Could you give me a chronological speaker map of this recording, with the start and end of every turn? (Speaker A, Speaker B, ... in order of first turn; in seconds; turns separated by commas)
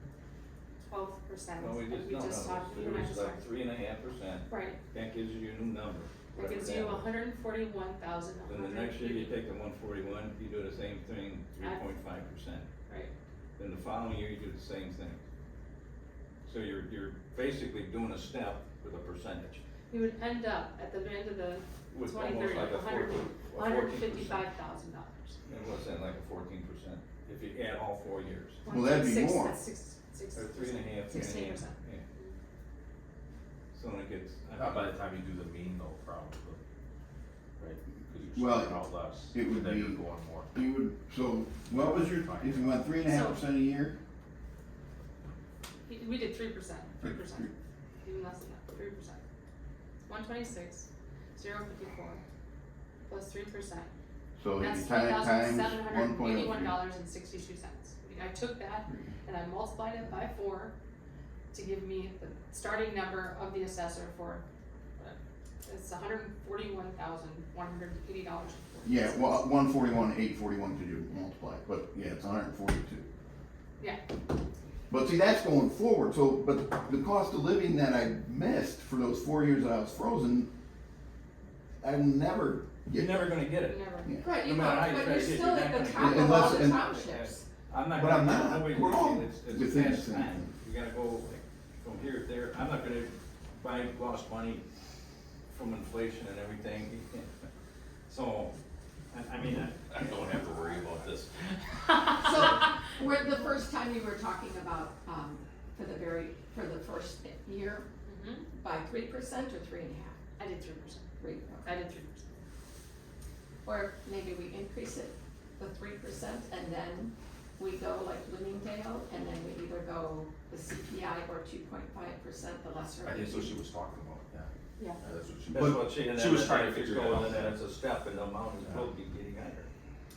Speaker A: 0.8-3.5, Speaker B: 1.6-7.1, Speaker A: 4.5-4.8, Speaker A: 6.3-9.4, Speaker B: 8.5-12.7, Speaker A: 11.6-11.9, Speaker A: 12.9-13.1, Speaker B: 13.6-15.2, Speaker B: 16.5-19.6, Speaker A: 19.9-25.4, Speaker B: 21.9-24.4, Speaker B: 25.5-28.6, Speaker A: 28.6-32.4, Speaker C: 28.7-29.6, Speaker B: 30.3-32.1, Speaker B: 33.7-34.9, Speaker D: 34.6-36.6, Speaker D: 37.6-40.5, Speaker C: 38.4-38.8, Speaker C: 39.3-40.0, Speaker C: 40.5-44.0, Speaker D: 41.6-42.9, Speaker A: 43.1-43.4, Speaker A: 45.9-49.2, Speaker C: 47.0-47.5, Speaker A: 50.1-52.2, Speaker A: 53.1-53.9, Speaker C: 54.4-56.8, Speaker A: 54.6-60.7, Speaker A: 61.5-64.4, Speaker A: 65.0-69.4, Speaker C: 68.8-73.1, Speaker C: 74.9-80.5, Speaker C: 81.8-83.3, Speaker B: 82.9-94.6, Speaker A: 83.6-84.2, Speaker C: 84.0-84.3, Speaker E: 84.2-87.4, Speaker C: 86.0-86.8, Speaker C: 87.9-90.5, Speaker B: 95.5-97.3, Speaker B: 98.1-98.5, Speaker B: 99.1-102.3, Speaker D: 99.9-100.8, Speaker E: 102.1-107.9, Speaker A: 108.1-108.5, Speaker E: 108.5-110.2, Speaker A: 110.4-111.1, Speaker E: 111.2-111.8, Speaker A: 111.7-112.3, Speaker E: 113.7-123.6, Speaker D: 123.0-124.5, Speaker D: 125.0-127.6, Speaker B: 125.5-129.7